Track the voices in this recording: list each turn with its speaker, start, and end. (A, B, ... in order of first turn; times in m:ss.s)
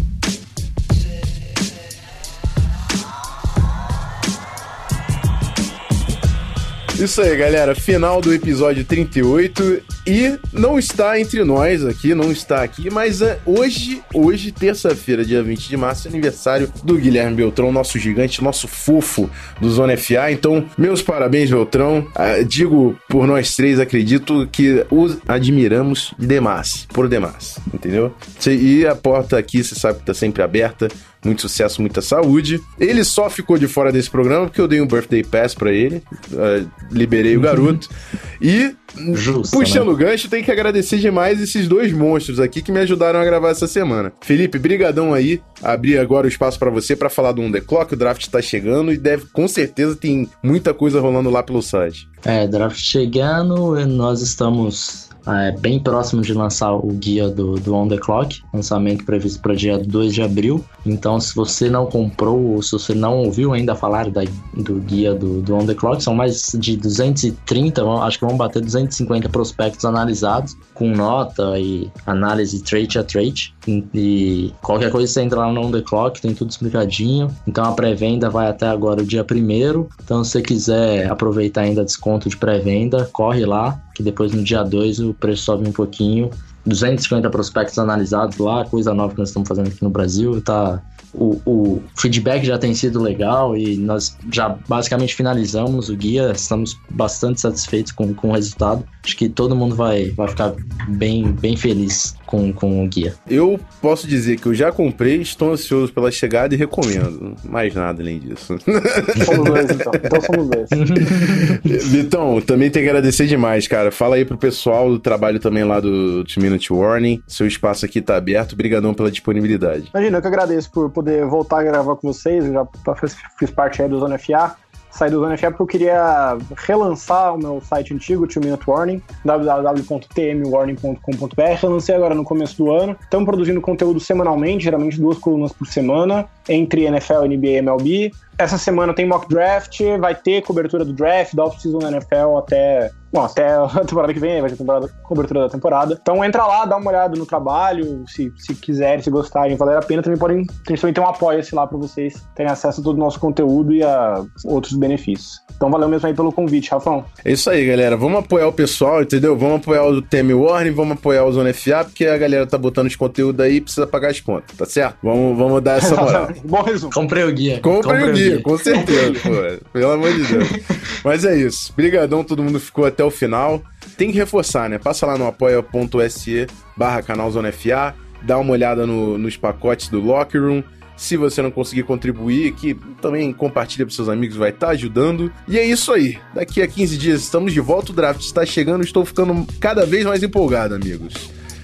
0:06.9-0:52.0 A
0:37.3-0:37.8 B
0:39.1-0:39.9 B
0:52.2-1:43.2 B
1:43.3-1:50.2 A
1:49.2-1:50.8 C
1:50.7-1:51.9 B
1:51.2-1:59.9 A
1:59.9-2:37.1 C
2:37.2-2:46.4 A
2:45.8-2:47.0 C
2:46.9-2:49.1 B
2:47.6-3:11.3 A
2:48.7-2:49.2 C
2:50.2-2:50.7 B